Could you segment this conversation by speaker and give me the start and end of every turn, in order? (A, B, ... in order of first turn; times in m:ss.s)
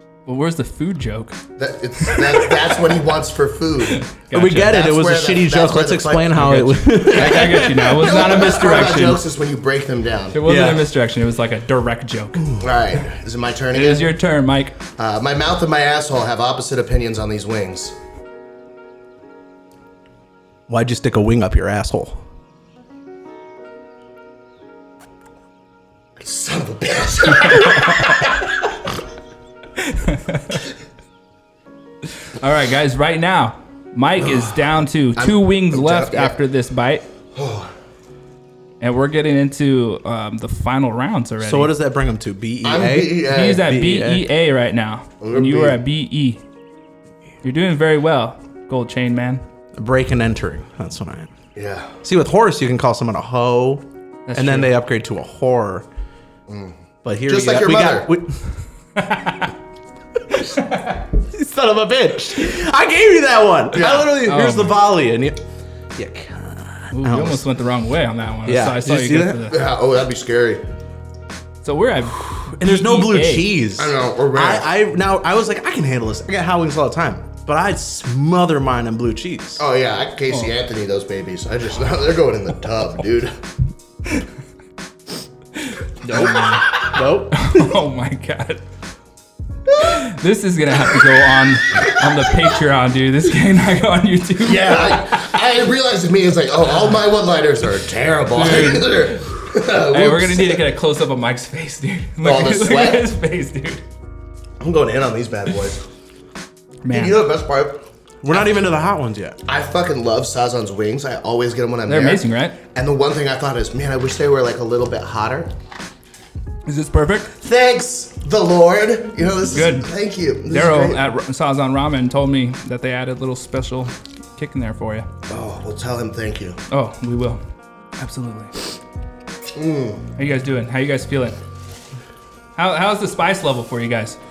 0:00.3-0:01.4 A
0:01.6-0:10.4 B
0:02.0-0:02.5 A
0:03.9-0:04.8 A
0:04.3-0:09.0 C
0:06.4-0:09.2 A
0:10.3-0:12.5 A
0:10.4-0:10.9 C
0:12.6-0:14.2 B
0:13.7-0:14.8 A
0:15.0-0:18.0 B
0:20.7-0:22.2 C
0:26.2-0:28.5 B
0:27.3-0:28.2 A
0:29.8-0:30.6 A
0:32.4-0:37.0 A
0:35.2-0:36.4 B
0:37.4-0:37.7 B
0:38.8-0:41.7 A
0:41.4-0:44.3 C
0:42.6-0:43.6 B
0:43.3-0:46.4 A
0:45.2-0:45.8 B
0:47.4-0:49.4 A
0:49.8-0:51.3 C
0:51.6-0:51.9 B
0:52.0-0:55.9 C
0:54.3-0:54.7 A
0:56.5-0:58.1 B
0:57.0-0:58.4 C
0:59.0-0:59.5 A
1:00.3-1:01.0 A
1:01.2-1:05.4 C
1:03.7-1:04.1 B
1:04.2-1:04.8 A
1:06.0-1:07.4 C
1:06.9-1:09.6 A
1:08.5-1:09.5 C
1:09.5-1:10.6 B
1:11.6-1:13.5 A
1:12.6-1:19.6 C
1:13.8-1:14.7 B
1:19.6-1:23.4 B
1:25.6-1:28.6 A
1:26.2-1:26.8 B
1:26.8-1:27.7 C
1:29.8-1:35.2 A
1:34.4-1:40.6 B
1:38.4-1:43.8 A
1:42.2-1:43.1 B
1:44.6-1:45.8 B
1:46.8-1:47.2 A
1:46.9-1:48.5 B
1:48.2-1:49.4 C
1:49.5-1:55.5 B
1:51.9-1:52.6 A
1:56.7-1:57.3 A
1:57.4-2:01.0 B
1:59.5-1:59.9 A
2:00.5-2:05.1 A
2:05.3-2:06.6 B
2:06.7-2:07.4 A
2:08.0-2:08.5 A
2:09.6-2:10.0 B
2:10.2-2:11.4 A
2:12.6-2:14.2 A